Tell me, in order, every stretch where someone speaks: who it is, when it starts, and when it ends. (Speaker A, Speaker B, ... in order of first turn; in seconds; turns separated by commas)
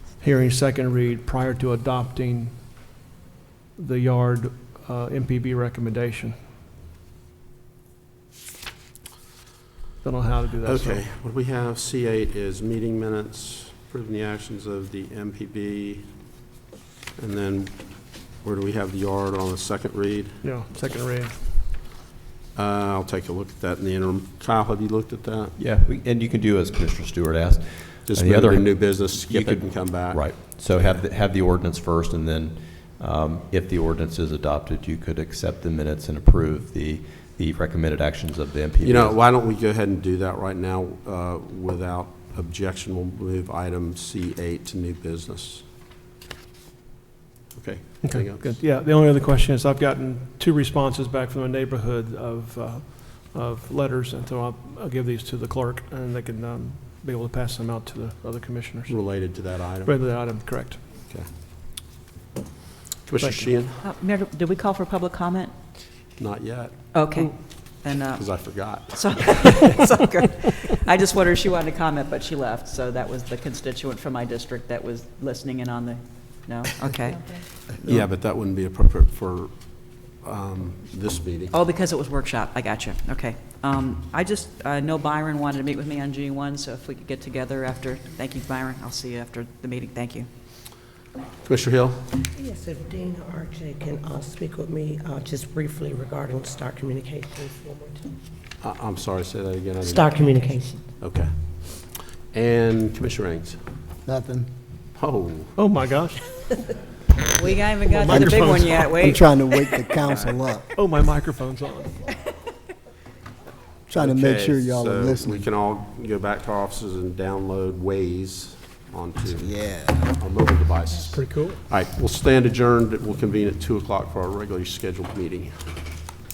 Speaker A: 0.2-2.9, Speaker A: 3.8-6.4, Speaker A: 10.0-11.0, Speaker B: 10.7-16.1, Speaker B: 17.2-20.4, Speaker A: 20.4-21.6, Speaker B: 22.6-25.6, Speaker C: 25.6-39.2, Speaker B: 28.1-30.3, Speaker B: 38.8-45.6, Speaker B: 47.5-48.6, Speaker A: 48.0-60.8, Speaker B: 58.9-60.0, Speaker B: 63.1-63.8, Speaker A: 63.2-63.5, Speaker D: 63.8-65.5, Speaker B: 66.2-67.2, Speaker D: 66.9-78.0, Speaker B: 68.0-69.6, Speaker B: 77.8-81.5, Speaker D: 81.5-90.3, Speaker B: 91.4-92.1, Speaker E: 92.3-98.0, Speaker B: 98.6-100.1, Speaker E: 99.8-100.8, Speaker B: 101.0-103.6, Speaker F: 104.0-104.5, Speaker B: 105.0-105.6, Speaker A: 105.5-106.6, Speaker D: 107.3-109.7, Speaker A: 107.9-108.9, Speaker F: 108.1-110.7, Speaker A: 110.7-112.0, Speaker F: 113.9-115.4, Speaker B: 114.0-125.8, Speaker F: 119.3-120.0, Speaker A: 121.1-121.6